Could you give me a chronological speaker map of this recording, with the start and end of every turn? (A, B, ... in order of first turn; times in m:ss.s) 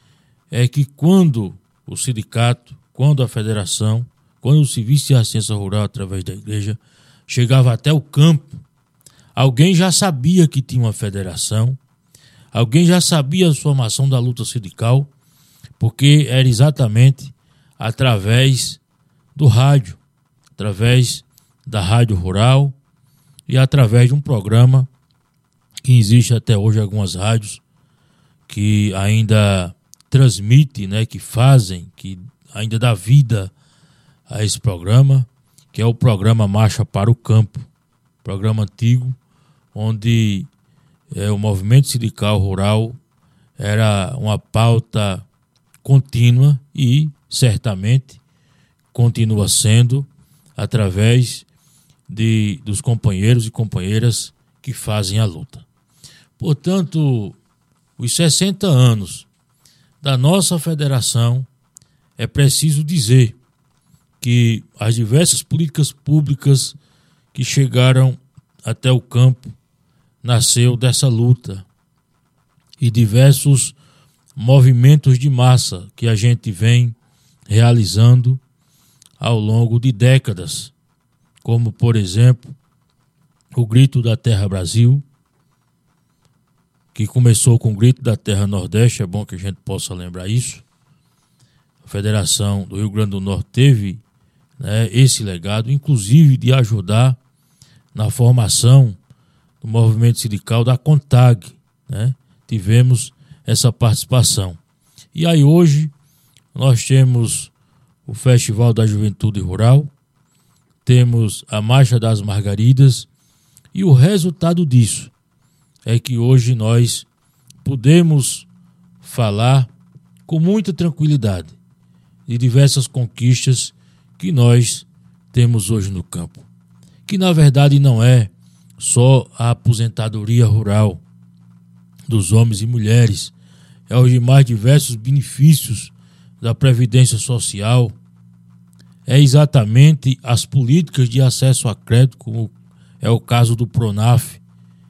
0:00.5-0:08.6 A
0:09.4-0:11.8 A
0:12.5-0:15.1 A
0:15.8-0:18.8 A
0:19.4-0:20.0 A
0:20.6-0:22.8 A
0:23.5-0:24.9 A
0:25.9-0:27.6 A
0:28.5-0:33.5 A
0:34.3-0:37.7 A
0:38.2-0:39.2 A
0:39.7-0:40.5 A
0:41.1-0:43.0 A
0:43.6-0:45.3 A
0:45.8-0:48.2 A
0:48.9-0:51.5 A
0:52.1-0:55.6 A
0:56.4-0:57.4 A
0:58.0-0:59.3 A
1:00.0-1:01.5 A
1:02.2-1:03.4 A
1:04.2-1:06.8 A
1:07.3-1:09.5 A
1:10.2-1:11.6 A
1:12.8-1:13.8 A
1:14.4-1:17.0 A
1:17.5-1:18.4 A
1:19.2-1:20.7 A
1:21.4-1:22.5 A
1:23.5-1:25.0 A
1:26.9-1:30.6 A
1:31.8-1:34.0 A
1:34.6-1:37.2 A
1:38.0-1:39.0 A
1:39.6-1:44.6 A
1:45.2-1:45.9 A
1:46.5-1:47.5 A
1:48.1-1:49.9 A
1:50.8-1:53.1 A
1:53.7-1:55.1 A
1:55.8-1:57.1 A
1:57.6-1:58.5 A
1:59.0-1:59.7 A
2:00.3-2:01.6 A
2:02.3-2:06.5 A
2:07.1-2:11.0 A
2:12.1-2:13.3 A
2:13.9-2:18.0 A
2:19.1-2:24.4 A